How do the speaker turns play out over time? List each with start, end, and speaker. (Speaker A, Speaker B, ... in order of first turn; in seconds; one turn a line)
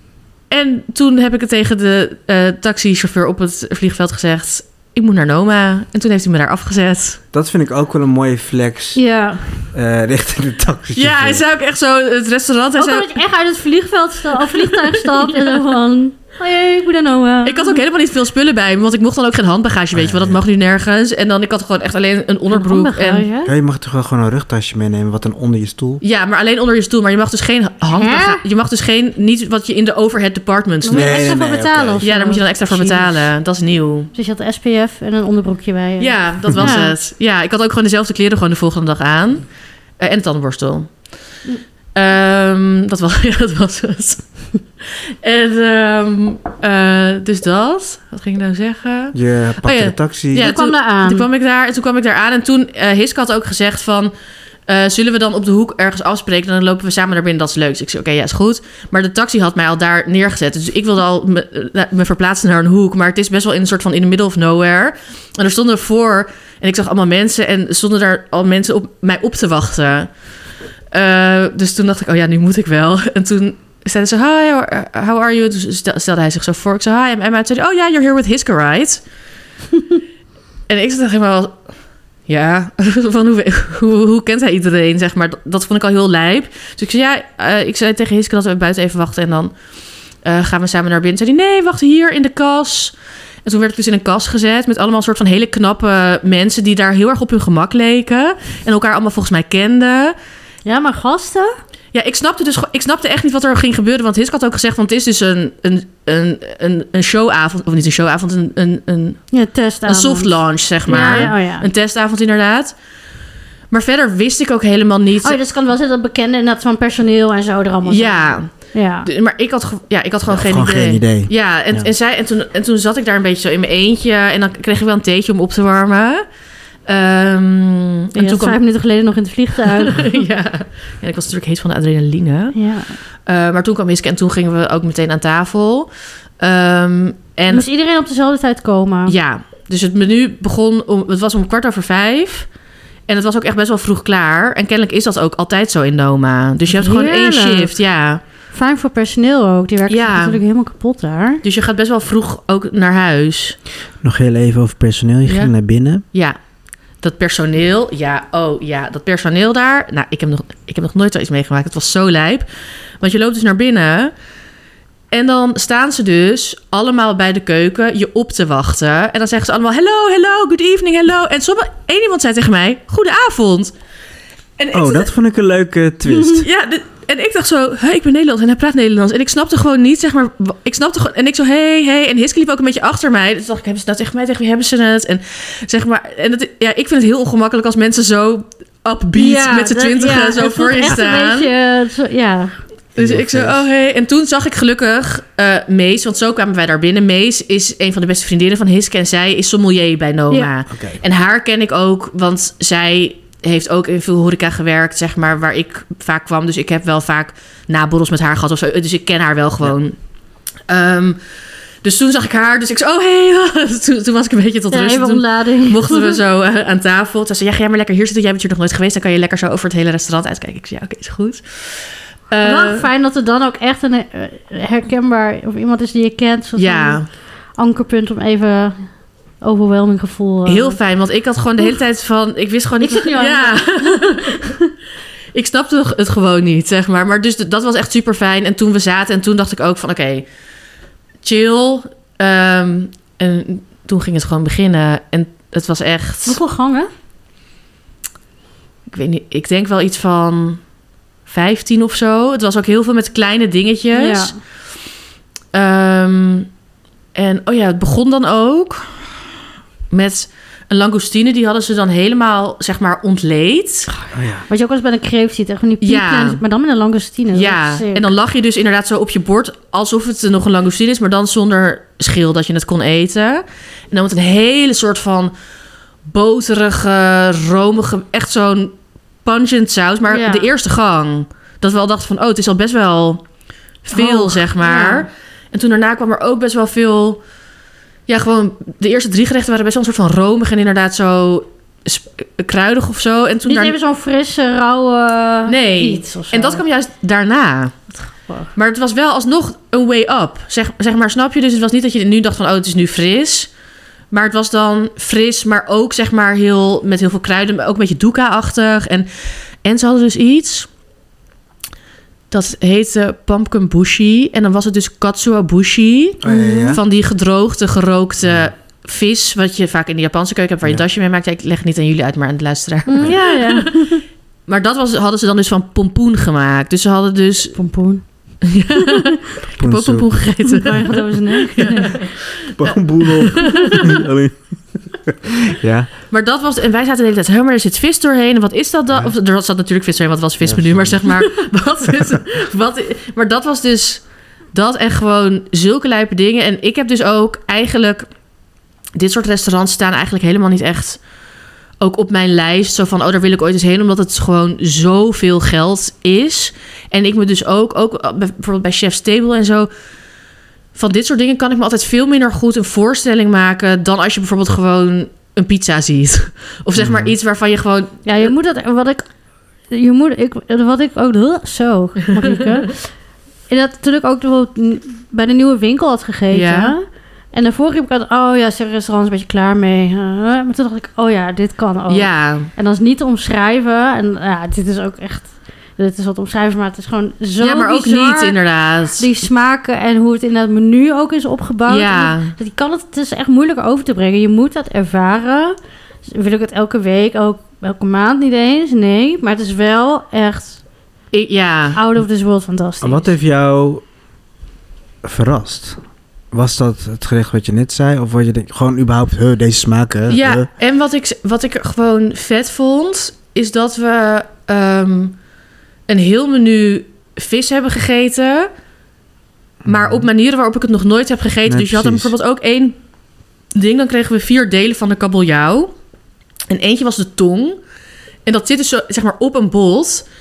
Speaker A: 0.5-7.2
Speaker B: 7.3-9.0
Speaker C: 8.9-9.5
Speaker B: 9.6-11.4
Speaker A: 11.0-13.2
Speaker C: 12.8-17.8
Speaker A: 14.4-15.6
Speaker A: 17.4-23.3
Speaker B: 19.9-20.4
Speaker C: 22.5-23.5
Speaker B: 23.4-26.0
Speaker A: 26.0-31.4
Speaker C: 27.9-28.4
Speaker C: 30.8-33.2
Speaker B: 30.9-32.0
Speaker A: 32.0-34.1
Speaker C: 34.1-37.0
Speaker A: 36.0-39.5
Speaker A: 40.0-41.0
Speaker A: 42.0-54.1
Speaker B: 49.1-50.5
Speaker C: 50.3-51.3
Speaker A: 54.7-70.1
Speaker A: 70.9-79.0
Speaker A: 80.7-81.6
Speaker A: 82.3-89.5
Speaker A: 90.2-100.2
Speaker C: 100.7-101.6
Speaker A: 101.9-109.2
Speaker C: 109.3-111.7
Speaker A: 109.9-112.8
Speaker A: 113.7-115.4
Speaker C: 115.2-119.1
Speaker A: 117.9-126.2
Speaker B: 120.3-121.9
Speaker A: 126.9-128.6
Speaker C: 128.2-130.1
Speaker A: 129.7-132.6
Speaker C: 132.5-133.0
Speaker A: 133.3-137.7
Speaker C: 137.5-139.1
Speaker A: 139.1-142.5
Speaker A: 143.1-148.2
Speaker C: 146.8-147.7
Speaker C: 148.5-151.4
Speaker A: 149.9-150.4
Speaker A: 151.4-153.6
Speaker B: 154.0-156.0
Speaker A: 155.3-155.5
Speaker A: 157.0-162.5
Speaker A: 163.0-164.1
Speaker A: 165.1-173.7
Speaker A: 174.6-175.1
Speaker B: 174.7-176.5
Speaker C: 176.1-176.4
Speaker A: 176.4-191.5
Speaker C: 189.2-192.6
Speaker B: 193.0-193.7
Speaker A: 193.0-210.0
Speaker B: 200.7-201.0
Speaker A: 210.7-211.2
Speaker A: 211.8-222.9
Speaker C: 214.7-216.2
Speaker C: 222.4-227.0
Speaker A: 226.6-227.1
Speaker C: 227.6-228.9
Speaker C: 229.4-230.8
Speaker A: 230.5-234.5
Speaker C: 232.8-234.6
Speaker A: 235.3-240.3
Speaker A: 241.2-246.4
Speaker C: 246.3-246.9
Speaker A: 248.9-250.6
Speaker A: 251.3-254.3
Speaker C: 253.9-254.4
Speaker A: 255.5-256.5
Speaker A: 257.1-258.9
Speaker A: 259.9-263.9
Speaker B: 264.1-264.5
Speaker C: 264.5-268.1
Speaker A: 265.8-266.4
Speaker A: 267.3-275.3
Speaker A: 276.1-278.7
Speaker A: 279.2-283.2
Speaker C: 280.1-280.5
Speaker A: 283.8-287.2
Speaker C: 283.9-285.1
Speaker A: 288.1-293.8
Speaker C: 293.5-296.6
Speaker A: 295.5-297.8
Speaker C: 298.0-298.5
Speaker A: 298.6-303.5
Speaker A: 304.1-309.1
Speaker A: 309.6-310.7
Speaker A: 312.3-323.9
Speaker B: 316.2-316.8
Speaker C: 316.2-316.8
Speaker B: 318.2-318.5
Speaker C: 322.9-324.0
Speaker A: 324.5-327.6
Speaker C: 327.5-328.0
Speaker A: 328.4-334.0
Speaker B: 329.6-330.1
Speaker C: 330.5-332.0
Speaker B: 332.6-335.9
Speaker C: 333.4-333.9
Speaker A: 336.1-348.1
Speaker B: 340.4-341.1
Speaker A: 349.0-351.0
Speaker A: 351.8-359.7
Speaker A: 360.8-368.3
Speaker B: 366.8-367.1
Speaker C: 368.1-369.0
Speaker C: 369.7-372.9
Speaker A: 372.1-372.7
Speaker C: 373.5-388.4
Speaker A: 376.3-376.7
Speaker A: 381.9-382.5
Speaker A: 387.4-389.1
Speaker C: 389.0-400.6
Speaker A: 391.7-392.3
Speaker A: 401.1-401.8
Speaker C: 401.8-403.1
Speaker B: 402.8-403.8
Speaker B: 405.0-405.8
Speaker B: 406.3-410.5
Speaker A: 410.1-415.2
Speaker A: 415.9-418.5
Speaker B: 419.6-420.1
Speaker A: 419.7-422.8
Speaker B: 421.5-422.1
Speaker A: 423.6-425.7
Speaker A: 426.5-427.6
Speaker A: 428.3-430.1